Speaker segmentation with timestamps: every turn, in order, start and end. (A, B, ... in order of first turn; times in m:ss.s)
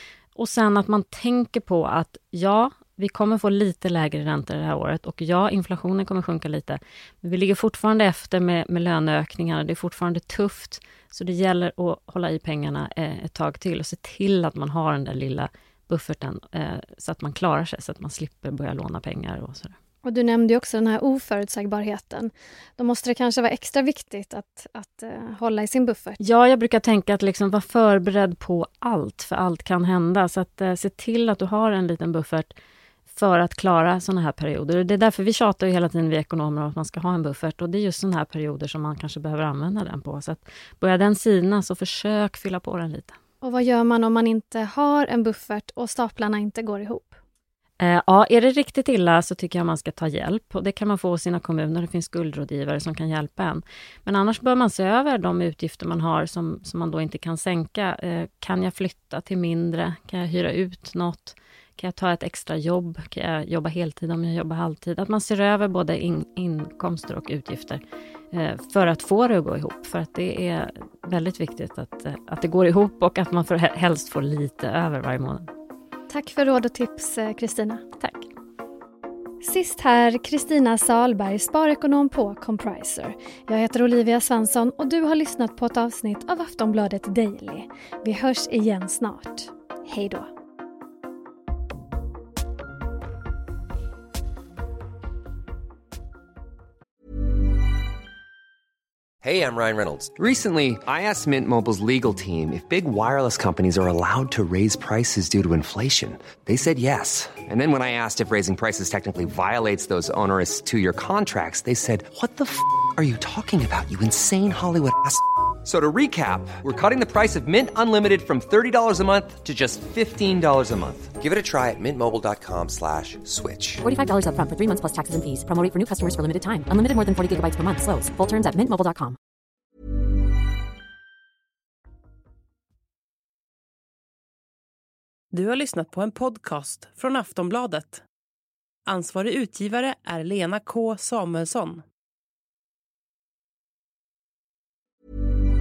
0:00.4-0:19.8 A
0:20.0-0:26.2 B
0:26.2-0:32.5 A
0:33.1-0:43.1 A
0:43.4-0:47.1 B
0:47.8-1:07.8 A
1:08.3-1:15.5 A
1:16.1-1:17.8 B
1:18.0-1:18.2 A
1:19.4-1:30.3 B
1:39.2-2:03.8 C
2:03.8-2:09.2 D
2:15.3-2:18.0 E
2:18.9-2:21.8 E